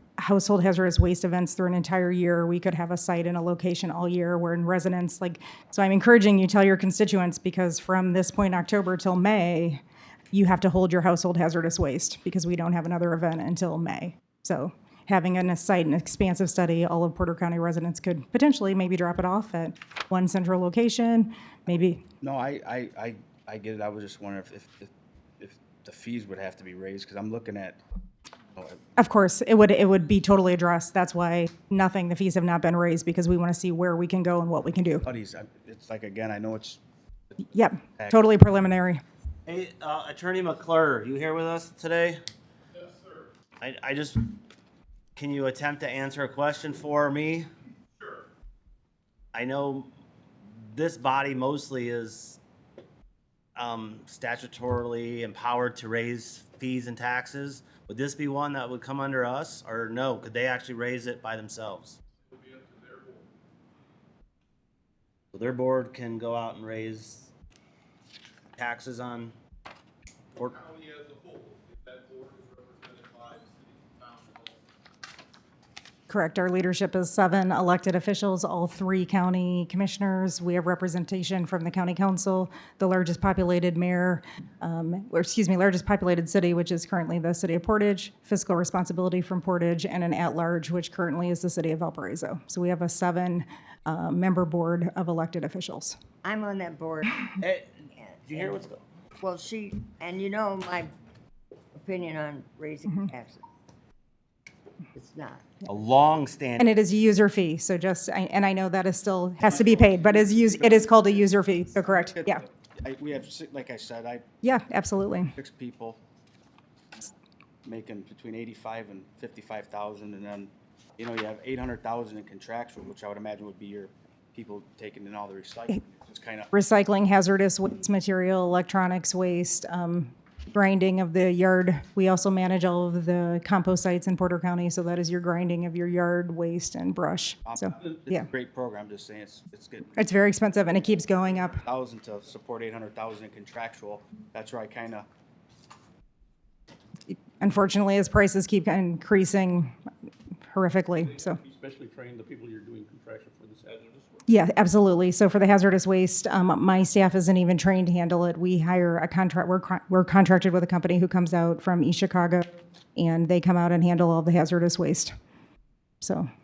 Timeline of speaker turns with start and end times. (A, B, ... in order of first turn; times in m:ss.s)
0:00.2-0:22.0 A
0:22.2-0:27.8 B
0:28.6-0:28.8 B
0:29.0-0:35.1 A
0:35.0-0:36.8 B
0:37.5-0:39.0 A
0:39.4-0:42.2 C
0:43.6-0:44.3 C
0:45.1-0:47.5 C
0:49.3-0:49.9 C
0:50.5-0:52.4 C
0:53.6-1:02.0 C
1:02.5-1:03.0 D
1:05.3-1:07.3 C
1:08.6-1:09.4 C
1:10.6-1:14.6 D
1:16.1-1:36.0 A
1:36.2-1:37.3 E
1:37.4-1:38.8 C
1:38.0-1:38.7 E
1:39.2-1:40.9 E
1:41.7-1:43.4 E
1:44.9-1:45.6 E
1:45.6-1:46.7 C
1:46.6-1:52.4 A
1:49.4-1:54.2 B
1:54.4-1:55.3 A
1:55.4-1:56.0 B
1:57.6-2:06.5 B
2:06.5-2:18.3 A
2:17.4-2:20.1 B
2:20.0-2:21.6 A
2:21.4-2:25.1 B
2:27.4-2:29.7 A
2:30.5-2:31.4 A
2:31.0-2:34.2 F
2:34.3-2:45.1 A